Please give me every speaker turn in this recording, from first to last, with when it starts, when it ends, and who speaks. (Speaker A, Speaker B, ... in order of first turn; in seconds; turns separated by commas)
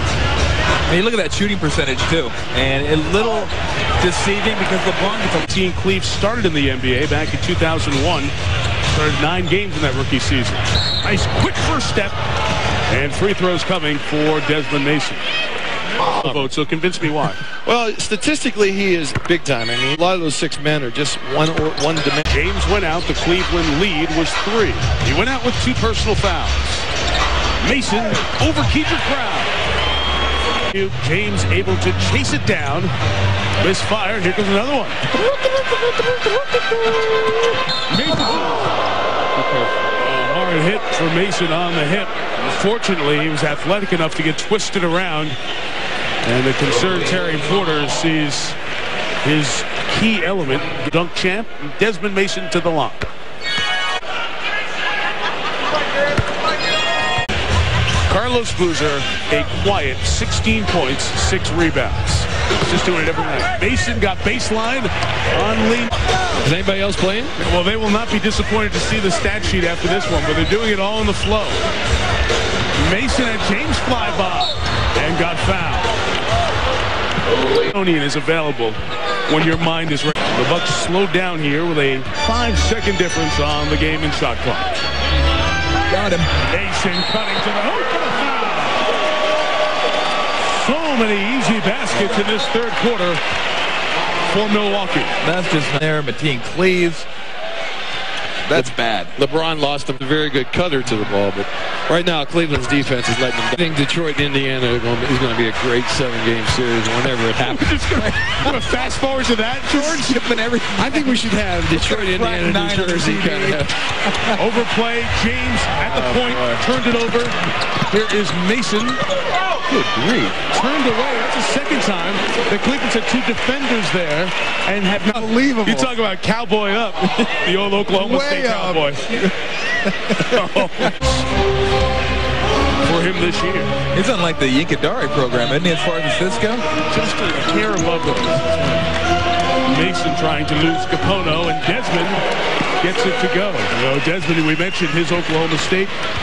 Speaker A: 0.9-5.5, Speaker B: 5.4-8.3, Speaker B: 8.9-12.2, Speaker B: 12.9-15.2, Speaker C: 16.1-16.5, Speaker B: 16.1-17.4, Speaker C: 17.6-22.3, Speaker B: 22.3-26.9, Speaker B: 27.6-29.5, Speaker B: 30.7-32.9, Speaker B: 33.6-35.0, Speaker C: 35.2-37.1, Speaker B: 37.9-38.7, Speaker C: 39.4-39.7, Speaker B: 39.9-45.4, Speaker B: 46.2-48.6, Speaker B: 49.2-53.1, Speaker B: 58.1-66.0, Speaker C: 66.4-67.4, Speaker B: 67.4-71.7, Speaker B: 72.8-76.0, Speaker B: 77.6-84.8, Speaker A: 85.9-86.3, Speaker B: 86.4-88.9, Speaker B: 90.4-93.2, Speaker B: 94.2-95.2, Speaker A: 95.2-97.1, Speaker A: 98.5-99.2, Speaker C: 98.5-107.8, Speaker B: 107.4-110.2, Speaker A: 109.7-114.3, Speaker C: 110.8-113.8, Speaker B: 114.3-119.0, Speaker A: 115.9-116.6, Speaker A: 119.7-120.3, Speaker B: 120.5-129.3, Speaker C: 125.1-126.0, Speaker C: 128.0-129.3, Speaker C: 129.9-130.7, Speaker B: 130.2-131.3, Speaker B: 132.8-133.7, Speaker A: 133.9-136.7, Speaker B: 136.9-138.7, Speaker B: 139.7-142.2, Speaker B: 142.8-145.9